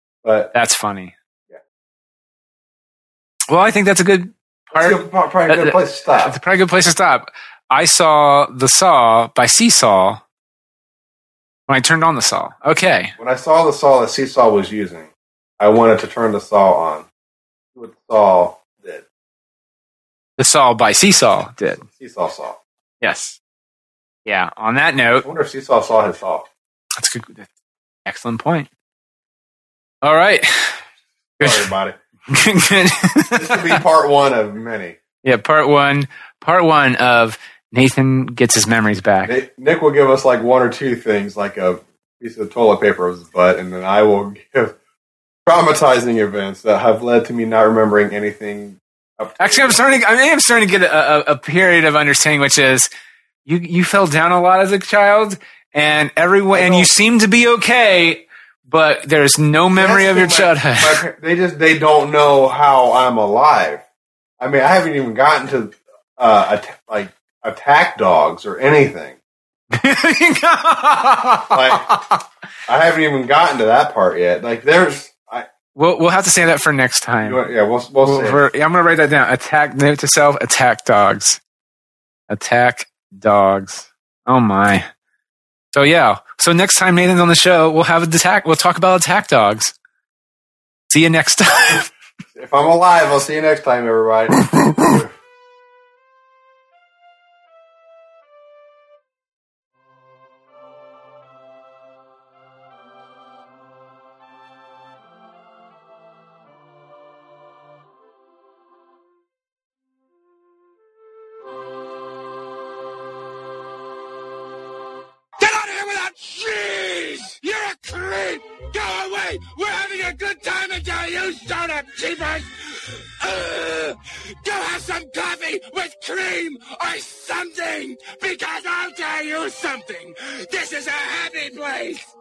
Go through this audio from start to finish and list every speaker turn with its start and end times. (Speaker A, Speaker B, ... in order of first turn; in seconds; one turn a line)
Speaker A: 0.2-0.5
Speaker B: 0.5-1.1
Speaker B: 3.5-10.2
Speaker A: 4.7-6.4
Speaker B: 11.7-13.1
Speaker A: 13.2-17.1
Speaker A: 17.8-19.0
Speaker B: 20.4-21.8
Speaker A: 21.8-22.6
Speaker B: 23.0-23.4
Speaker B: 24.2-25.3
Speaker A: 25.2-26.5
Speaker B: 27.0-27.5
Speaker B: 28.1-28.7
Speaker B: 30.0-30.8
Speaker B: 31.4-31.7
Speaker A: 31.4-32.0
Speaker B: 32.3-33.8
Speaker A: 33.4-35.0
Speaker B: 35.2-39.4
Speaker A: 39.3-44.8
Speaker A: 45.5-49.8
Speaker B: 49.4-52.9
Speaker B: 53.5-61.0
Speaker A: 56.5-56.9
Speaker A: 59.7-63.8
Speaker A: 64.4-69.2
Speaker B: 69.7-72.2
Speaker A: 71.5-71.8
Speaker A: 72.7-75.5
Speaker B: 75.8-77.4
Speaker A: 77.2-78.4
Speaker B: 78.0-81.4
Speaker B: 82.3-84.8
Speaker B: 85.7-89.7
Speaker B: 90.9-91.9
Speaker A: 92.3-95.1
Speaker C: 115.4-132.1